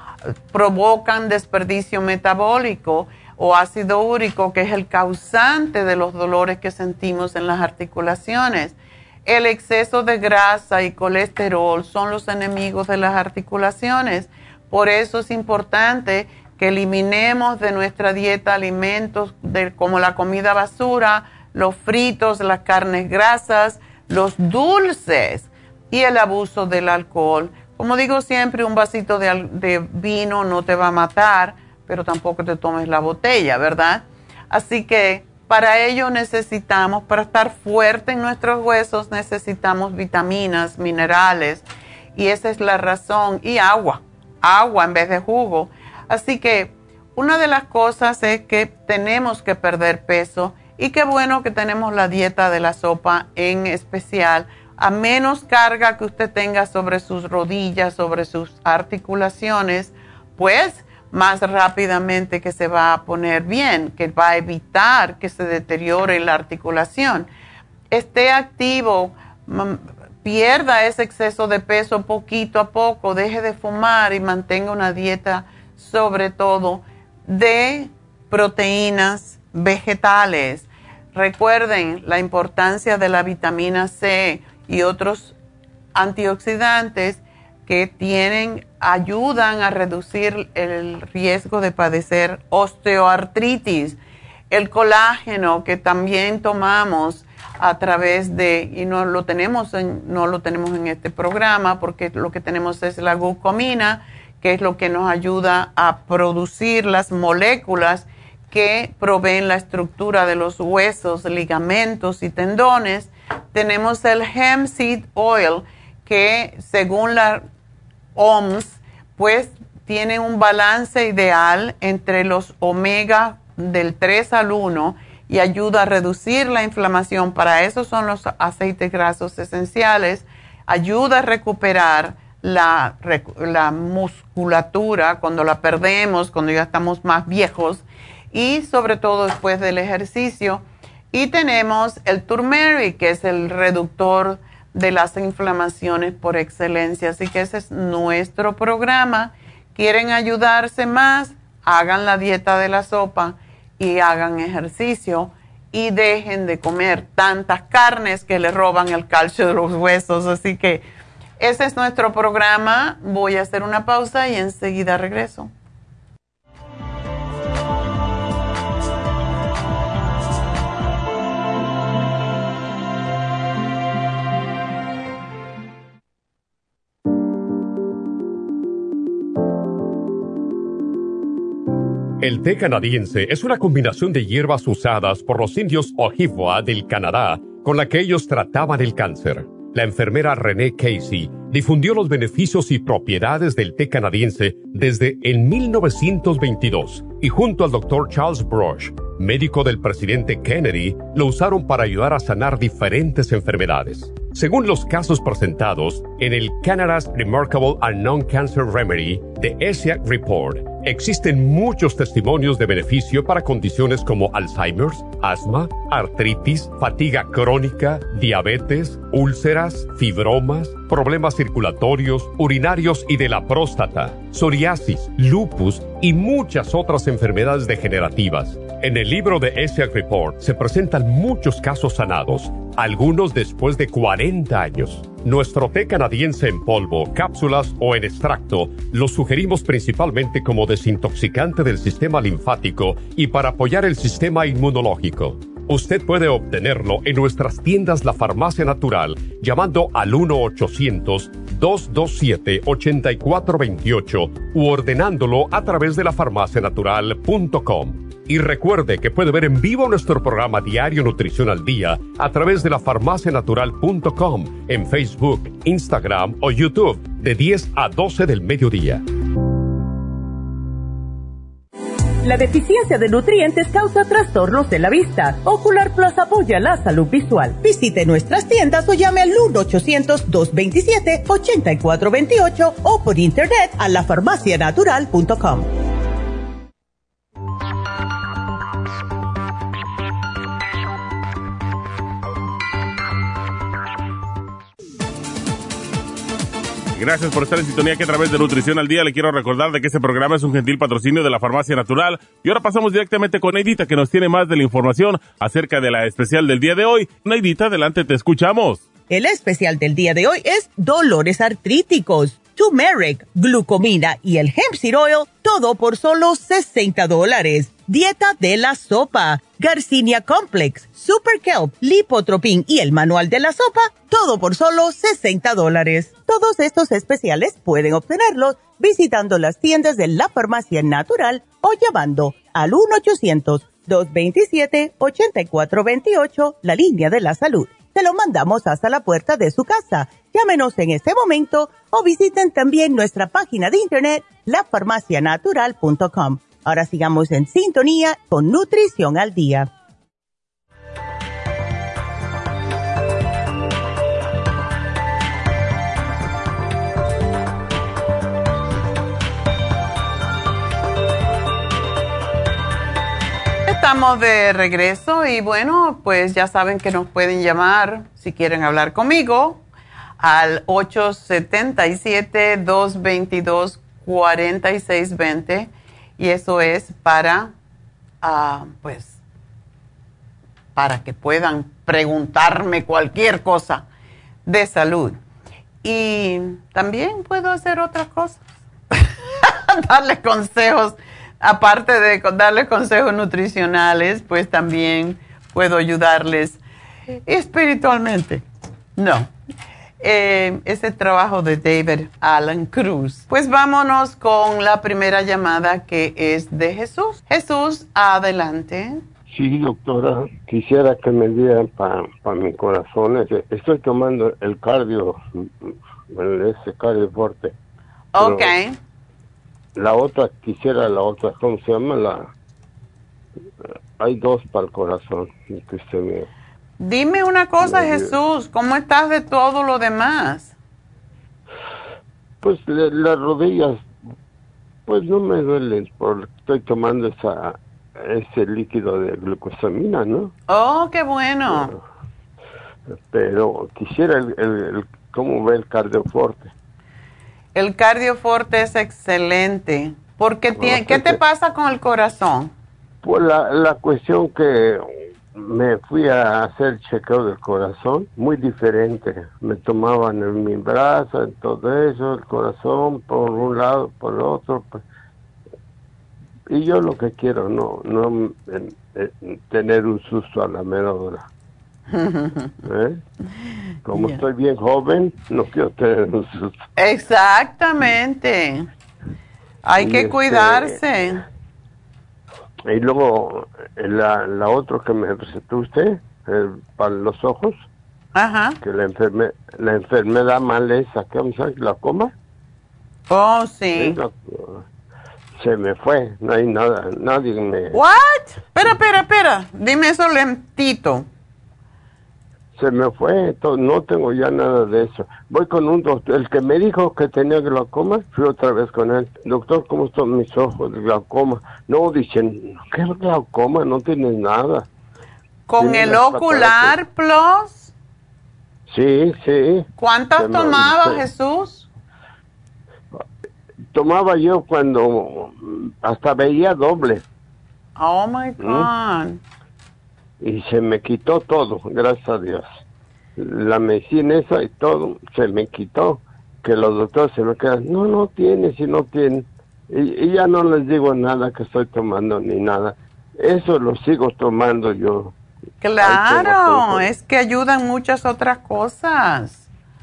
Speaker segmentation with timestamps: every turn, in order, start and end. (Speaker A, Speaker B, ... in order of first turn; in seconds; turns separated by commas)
Speaker A: 0.5-67.3, Speaker A: 67.9-85.3, Speaker A: 85.9-94.0, Speaker A: 94.5-117.4, Speaker A: 118.1-160.8, Speaker A: 161.4-165.5, Speaker B: 182.2-269.0, Speaker C: 272.2-285.7, Speaker D: 297.0-308.9, Speaker C: 309.1-349.7, Speaker A: 363.6-369.6, Speaker A: 370.2-377.5, Speaker A: 378.2-379.2, Speaker A: 380.8-383.9, Speaker A: 384.4-385.2, Speaker A: 385.8-388.4, Speaker A: 388.9-396.6, Speaker A: 397.2-398.4, Speaker A: 398.9-399.3, Speaker A: 400.0-409.0, Speaker E: 409.3-417.5, Speaker A: 418.1-418.8, Speaker E: 418.2-418.5, Speaker E: 419.8-422.3, Speaker E: 424.0-426.3, Speaker A: 426.8-430.5, Speaker E: 427.6-428.1, Speaker E: 432.4-433.9, Speaker E: 434.9-440.3, Speaker A: 440.5-441.7, Speaker E: 441.5-441.8, Speaker E: 443.1-446.5, Speaker A: 447.5-452.5, Speaker E: 450.5-451.2, Speaker E: 453.0-464.8, Speaker E: 466.5-471.2, Speaker A: 471.9-472.5, Speaker E: 472.6-473.0, Speaker E: 473.9-476.6, Speaker A: 473.9-474.2, Speaker A: 476.8-478.7, Speaker A: 479.6-481.2, Speaker E: 479.8-480.8, Speaker E: 482.7-487.7, Speaker A: 488.1-488.6, Speaker E: 488.6-492.1, Speaker A: 493.1-494.0, Speaker E: 493.7-494.6, Speaker E: 495.4-497.8, Speaker A: 497.7-501.1, Speaker E: 502.5-514.7, Speaker A: 515.5-517.7, Speaker E: 515.6-516.7, Speaker E: 518.7-521.0, Speaker A: 519.8-521.7, Speaker E: 523.7-527.0, Speaker A: 527.8-529.2, Speaker E: 528.4-528.7, Speaker E: 530.2-532.5, Speaker E: 533.2-545.1, Speaker A: 545.6-549.5, Speaker E: 545.8-546.9